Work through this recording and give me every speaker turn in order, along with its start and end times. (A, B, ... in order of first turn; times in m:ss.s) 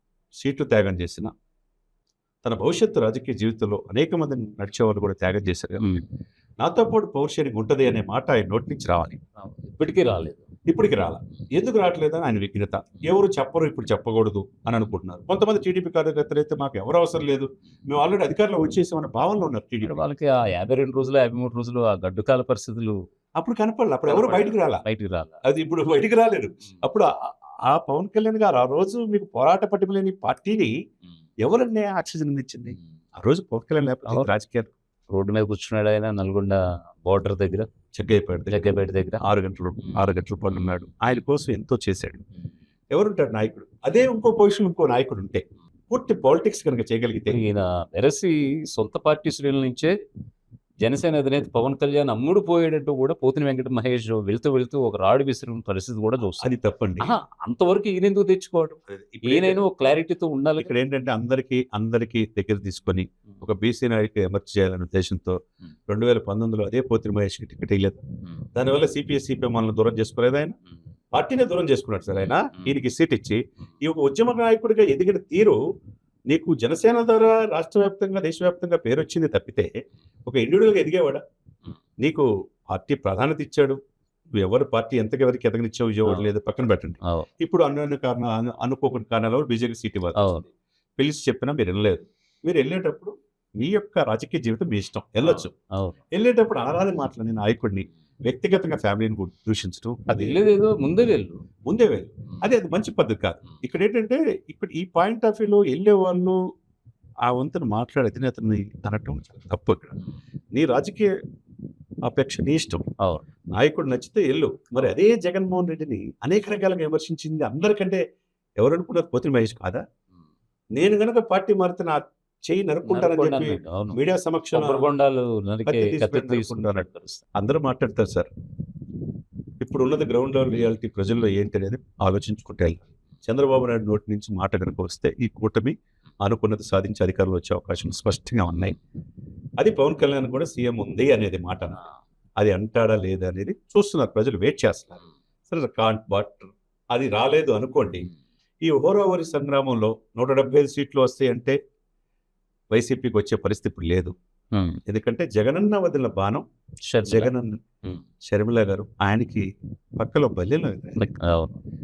0:00.4-0:01.3 A
0:02.4-0:06.0 A
0:06.6-0:09.2 A
0:09.4-0:10.5 B
0:10.7-0:20.0 A
0:19.8-0:23.0 B
0:23.4-0:24.8 A
0:24.1-0:25.4 B
0:25.4-0:27.1 A
0:27.7-0:30.8 A
0:31.4-0:34.7 A
0:35.1-0:37.7 B
0:37.9-0:38.6 A
0:38.5-0:39.2 B
0:39.2-0:42.2 A
0:42.9-0:47.4 A
0:47.3-0:50.0 B
0:50.8-1:00.7 B
0:56.4-0:57.1 A
0:58.9-0:59.6 A
1:00.6-1:08.0 A
1:08.6-1:10.6 A
1:11.1-1:15.6 A
1:16.3-1:19.7 A
1:20.3-1:21.2 A
1:22.0-1:23.8 A
1:24.3-1:35.5 A
1:30.2-1:30.4 B
1:35.2-1:36.0 B
1:36.1-1:40.4 A
1:40.1-1:41.4 B
1:41.7-1:46.4 A
1:47.3-1:50.0 A
1:50.5-1:51.1 A
1:52.1-1:52.8 A
1:53.6-1:58.0 A
1:58.6-1:59.8 A
2:00.8-2:04.9 A
2:02.9-2:04.0 B
2:04.5-2:07.2 B
2:05.7-2:08.3 A
2:09.6-2:18.8 A
2:19.6-2:21.8 A
2:22.4-2:28.1 A
2:28.6-2:31.6 A
2:32.7-2:34.1 A
2:34.5-2:34.8 B
2:34.9-2:36.4 A
2:36.9-2:37.3 B
2:37.1-2:37.6 A
2:38.2-2:39.5 A
2:40.0-2:41.0 A
2:41.0-2:41.6 B